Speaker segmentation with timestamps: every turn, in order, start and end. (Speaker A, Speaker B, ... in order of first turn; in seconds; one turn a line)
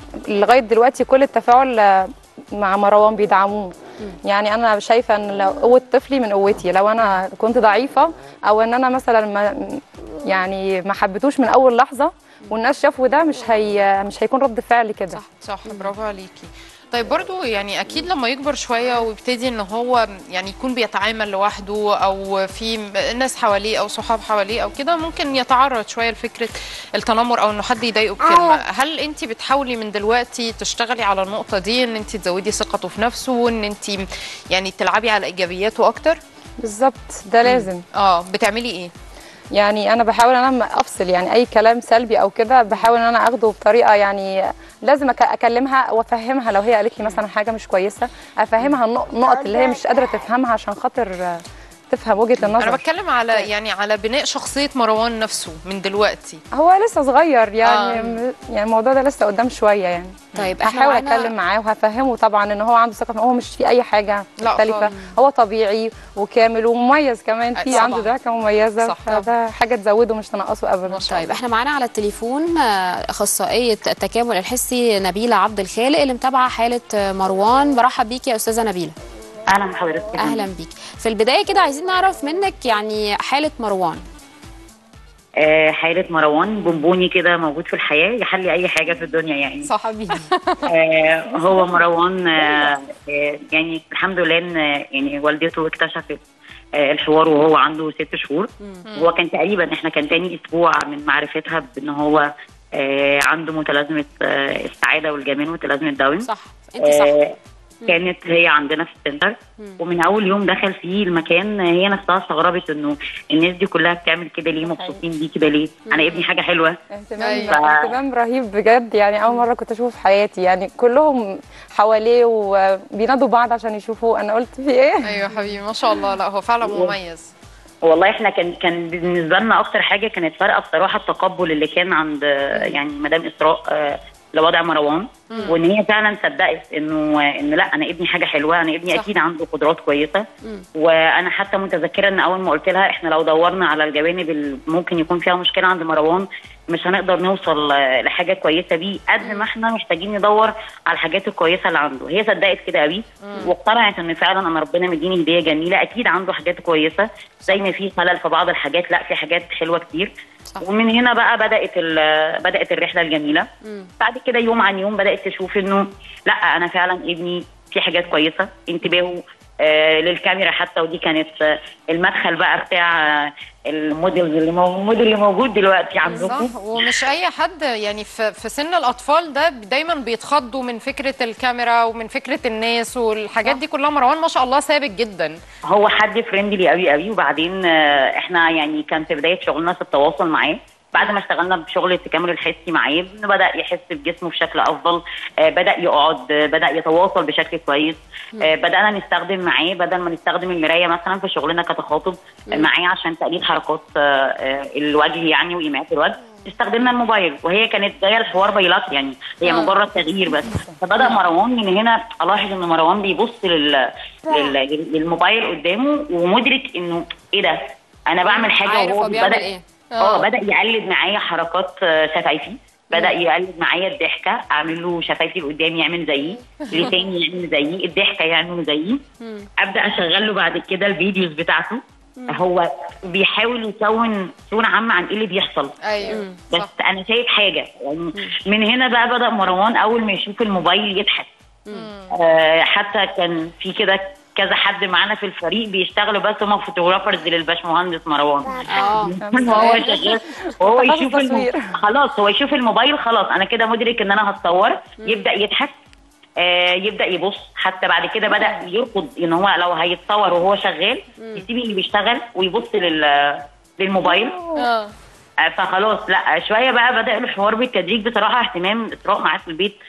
Speaker A: 0.3-15.2
Speaker B: 15.1-15.9
Speaker C: 15.4-36.2
Speaker A: 36.6-37.8
Speaker C: 37.4-38.9
Speaker A: 39.5-53.5
Speaker C: 52.6-56.4
Speaker A: 56.5-71.1
Speaker C: 57.6-58.2
Speaker B: 60.4-61.3
Speaker C: 64.4-64.9
Speaker C: 67.5-68.1
Speaker B: 67.7-68.0
Speaker C: 68.8-69.3
Speaker C: 70.9-71.4
Speaker B: 71.1-79.0
Speaker D: 79.5-80.5
Speaker B: 80.2-84.0
Speaker D: 85.4-89.7
Speaker C: 89.6-90.7
Speaker D: 90.7-96.2
Speaker D: 96.8-106.3
Speaker B: 106.2-107.2
Speaker D: 106.8-107.3
Speaker D: 107.9-116.8
Speaker A: 114.6-115.0
Speaker B: 115.9-116.2
Speaker A: 116.9-125.3
Speaker C: 117.2-117.6
Speaker D: 117.5-117.9
Speaker C: 125.0-127.3
Speaker D: 126.6-127.0
Speaker D: 127.8-140.2
Speaker B: 132.5-132.8
Speaker D: 140.8-163.4
Speaker B: 149.2-149.5
Speaker C: 153.2-153.5
Speaker B: 163.6-163.9
Speaker D: 164.0-176.5
Speaker C: 176.1-185.4
Speaker B: 176.1-176.4
Speaker D: 185.7-219.5
Speaker C: 209.5-209.7
Speaker B: 218.2-219.6
Speaker C: 219.9-220.3
Speaker D: 220.0-229.0
Speaker C: 226.7-226.9
Speaker B: 229.2-229.5
Speaker D: 229.6-241.3
Speaker C: 235.8-236.7
Speaker B: 236.1-236.4
Speaker C: 241.7-242.1
Speaker D: 242.2-255.7
Speaker B: 248.7-249.9
Speaker A: 249.2-251.7
Speaker B: 255.0-255.3
Speaker D: 256.4-264.5
Speaker B: 258.4-258.6
Speaker B: 261.2-261.4
Speaker C: 264.6-264.9
Speaker D: 265.4-269.8